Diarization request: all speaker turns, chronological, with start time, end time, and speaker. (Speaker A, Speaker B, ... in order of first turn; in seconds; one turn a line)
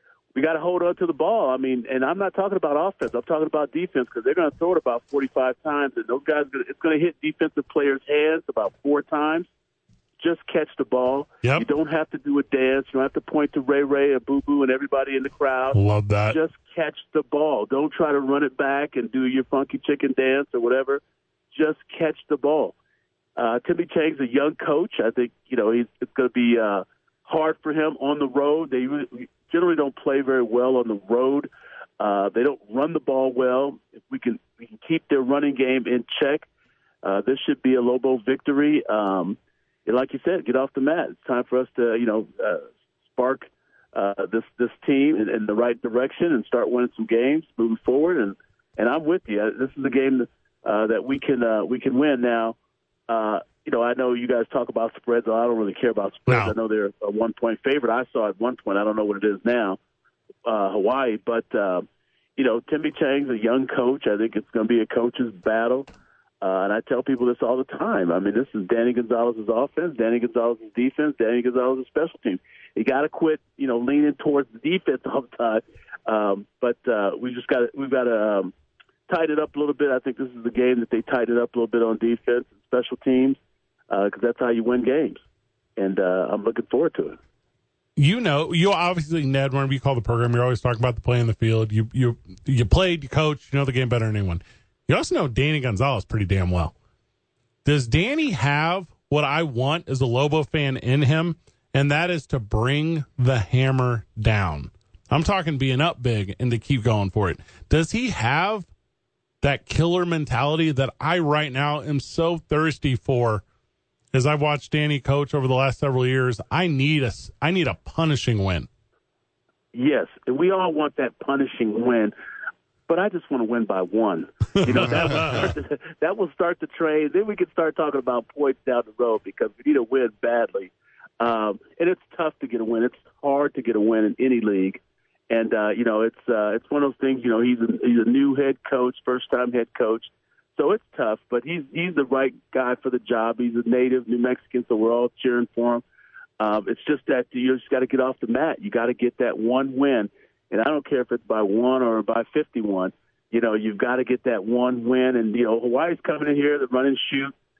Speaker A: 0.3-9.5
Speaker A: 10.2-21.0
Speaker B: 15.7-16.4
Speaker A: 21.5-22.8
Speaker A: 23.4-36.5
Speaker A: 37.0-52.5
Speaker A: 53.1-59.8
Speaker B: 56.3-56.5
Speaker A: 60.4-61.9
Speaker A: 62.4-65.9
Speaker A: 66.4-78.5
Speaker A: 79.1-83.4
Speaker A: 83.9-85.2
Speaker A: 85.8-87.2
Speaker B: 88.0-96.7
Speaker B: 97.6-108.7
Speaker B: 109.4-113.4
Speaker B: 114.1-118.7
Speaker A: 119.7-122.1
Speaker A: 122.9-145.8
Speaker B: 124.6-125.5
Speaker A: 146.4-157.3